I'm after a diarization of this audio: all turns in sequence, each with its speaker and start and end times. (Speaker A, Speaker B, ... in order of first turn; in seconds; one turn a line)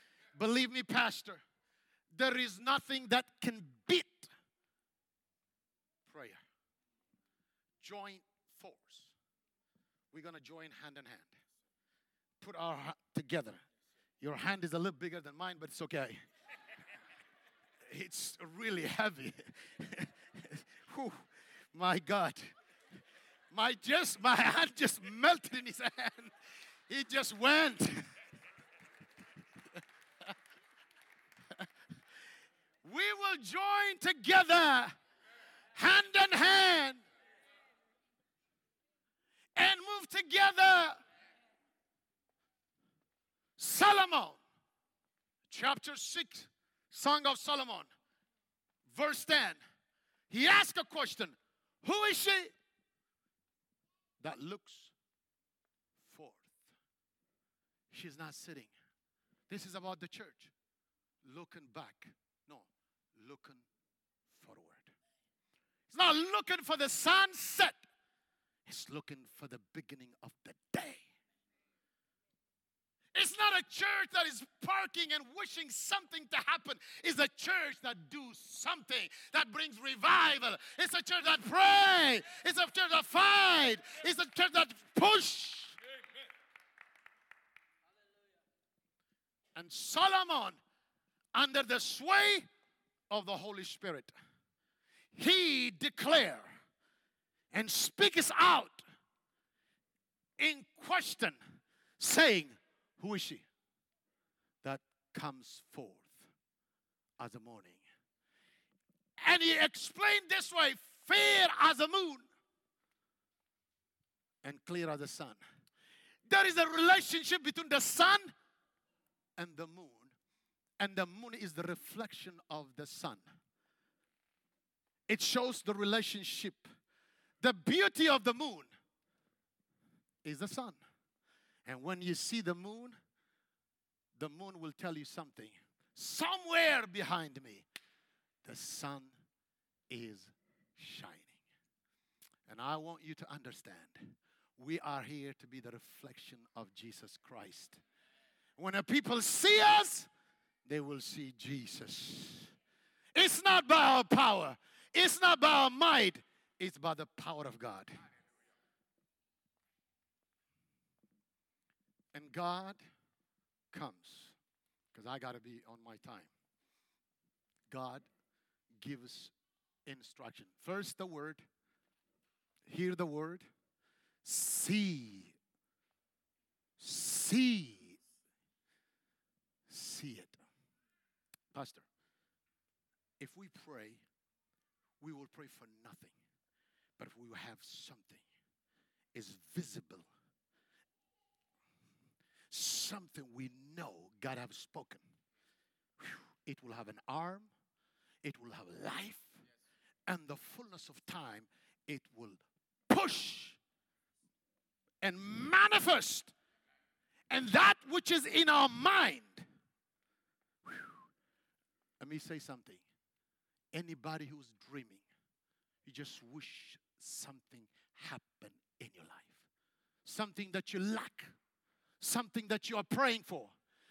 Speaker A: 0.4-1.4
Speaker A: 2.1-4.3
Speaker A: 6.0-6.4
Speaker A: 7.8-9.1
Speaker A: 10.1-11.3
Speaker A: 12.4-13.6
Speaker A: 14.2-16.2
Speaker A: 17.9-21.2
Speaker A: 21.7-22.5
Speaker A: 23.5-26.3
Speaker A: 26.9-28.1
Speaker A: 32.8-35.0
Speaker A: 35.8-37.0
Speaker A: 39.6-41.0
Speaker A: 43.6-44.4
Speaker A: 45.5-47.9
Speaker A: 48.9-49.6
Speaker A: 50.3-52.5
Speaker A: 54.2-54.9
Speaker A: 56.0-56.7
Speaker A: 57.9-58.7
Speaker A: 59.5-60.5
Speaker A: 61.2-63.6
Speaker A: 64.3-64.9
Speaker A: 65.9-67.8
Speaker A: 68.7-71.0
Speaker A: 73.2-85.8
Speaker A: 89.6-90.6
Speaker A: 91.3-92.5
Speaker A: 93.1-94.1
Speaker A: 95.1-96.5
Speaker A: 97.5-98.8
Speaker A: 100.4-101.4
Speaker A: 102.0-103.5
Speaker A: 104.6-106.3
Speaker A: 107.2-107.8
Speaker A: 109.2-112.3
Speaker A: 114.4-115.4
Speaker A: 116.3-118.3
Speaker A: 119.4-120.1
Speaker A: 120.8-123.2
Speaker A: 125.1-126.6
Speaker A: 127.4-128.7
Speaker A: 130.2-130.8
Speaker A: 131.7-133.0
Speaker A: 134.2-137.7
Speaker A: 138.4-139.1
Speaker A: 139.9-141.4
Speaker A: 142.5-147.8
Speaker A: 148.6-150.1
Speaker A: 150.7-152.5
Speaker A: 153.2-158.0
Speaker A: 162.1-162.8
Speaker A: 163.7-164.3
Speaker A: 164.9-166.3
Speaker A: 167.7-168.1
Speaker A: 168.8-169.3
Speaker A: 169.9-171.4
Speaker A: 172.7-173.5
Speaker A: 174.2-175.3
Speaker A: 176.8-178.0
Speaker A: 179.7-180.4
Speaker A: 181.5-181.8
Speaker A: 183.2-184.0
Speaker A: 185.0-186.2
Speaker A: 187.0-188.2
Speaker A: 189.2-190.1
Speaker A: 192.5-195.0
Speaker A: 196.0-197.5
Speaker A: 198.2-199.4
Speaker A: 200.1-203.6
Speaker A: 205.0-206.3
Speaker A: 207.3-209.4
Speaker A: 210.7-210.9
Speaker A: 212.0-212.8
Speaker A: 213.7-215.0
Speaker A: 215.8-219.4
Speaker A: 220.1-221.3
Speaker A: 222.0-223.5